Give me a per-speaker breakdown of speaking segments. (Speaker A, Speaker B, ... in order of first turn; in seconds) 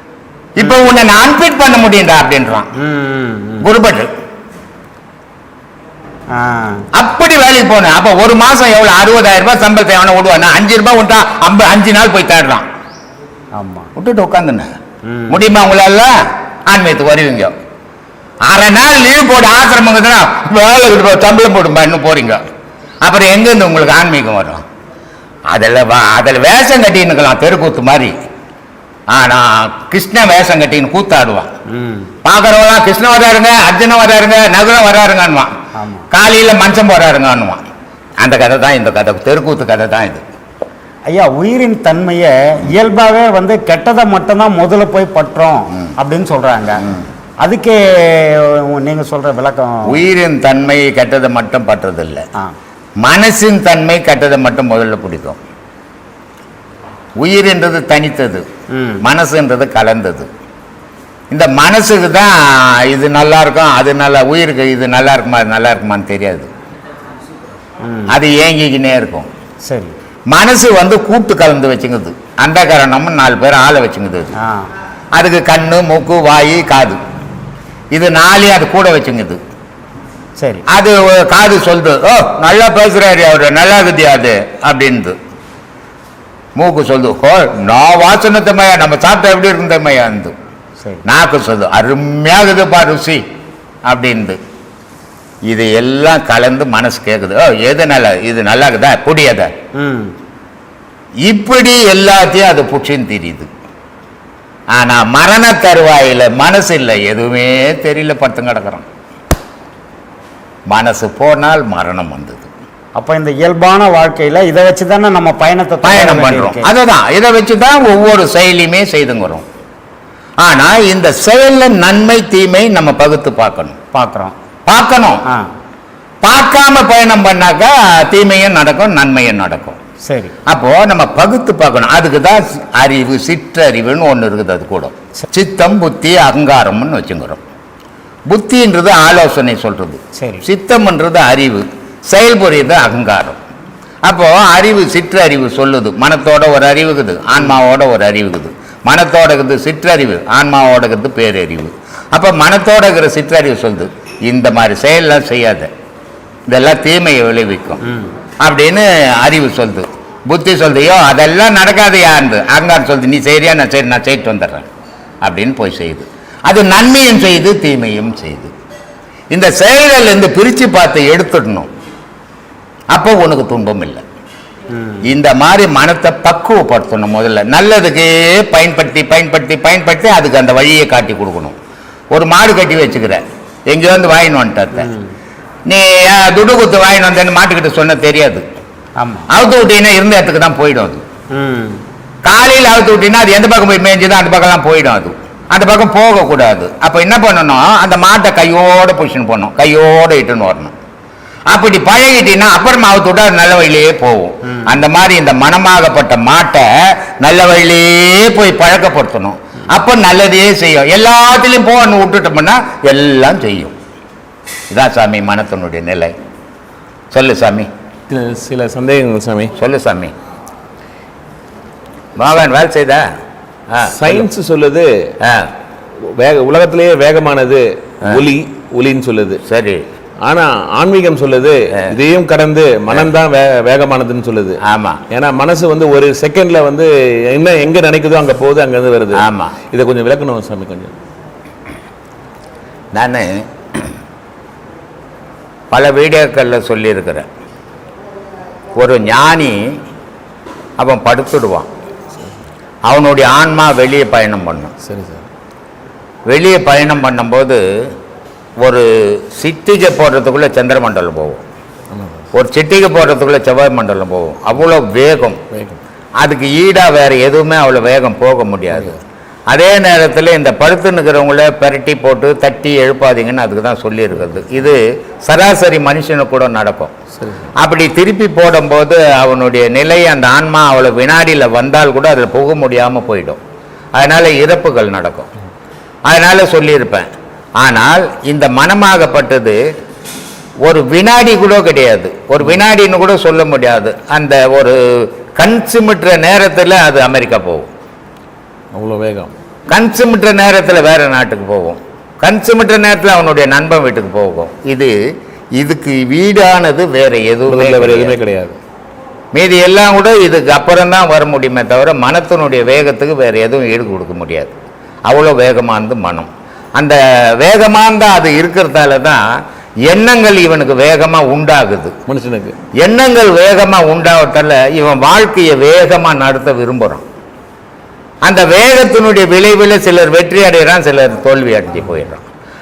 Speaker A: 0.6-2.7, 3.6-4.1, 6.9-12.7, 13.9-14.7, 15.3-16.1, 16.7-17.5, 18.4-22.4, 23.0-24.6, 25.5-28.1, 29.1-31.5, 32.2-35.5, 36.1-37.6, 38.2-40.2, 49.9-52.2, 53.0-55.4, 57.2-58.5, 59.0-60.3, 61.3-66.5, 68.1-69.3, 70.3-74.3, 75.1-77.0, 77.9-79.4, 80.7-85.2, 86.5-90.3, 91.0-93.2, 93.8-94.4, 95.5-99.5, 101.3-103.5, 104.7-108.8, 110.7-112.5, 115.8-119.4, 120.4-123.8, 124.7-125.2, 126.2-129.8, 130.5-137.4, 138.3-143.4, 144.0-155.7, 156.5-157.8, 158.4-164.7, 165.2-168.5, 169.3-171.7, 172.9-174.0, 175.1-181.6, 182.1-184.9, 185.7-188.4, 189.3-191.0, 192.2-200.7, 201.5-213.7, 214.7-216.1, 217.1-217.7, 219.6-220.1, 222.2-223.0, 223.7-224.2, 225.2-225.5, 229.4-229.8, 234.6-235.0, 239.2-239.6, 242.9-243.4, 245.7-247.3, 248.8-249.6, 250.8-251.7, 252.9-254.7, 256.3-257.6, 258.6-261.4, 262.3-265.4, 266.2-269.0, 269.5-276.9, 277.6-283.4, 283.9-285.3, 286.1-289.6, 290.6-297.7, 299.7-304.9, 305.6-308.1, 309.3-314.5, 315.1-319.2, 319.9-321.9, 322.8-327.0, 328.2-332.2
Speaker B: 2.8-3.7, 6.3-6.8, 13.6-13.9, 15.1-15.4, 31.7-32.1, 35.8-36.1, 41.1-46.8, 47.4-50.0, 58.7-59.0, 67.8-68.1, 69.7-69.9, 74.4-74.7, 80.4-80.6, 99.8-100.1, 113.0-116.7, 123.9-124.3, 130.1-130.3, 140.2-140.4, 157.8-158.1, 174.7-175.0, 184.8-185.1, 189.0-189.3, 191.3-191.8
Speaker C: 218.1-219.5, 223.8-224.9, 226.1-229.4, 230.2-234.6, 235.1-240.9, 254.8-255.2, 261.9-262.2, 265.5-265.8, 277.2-277.5, 298.7-299.3, 307.5-308.6, 322.1-322.6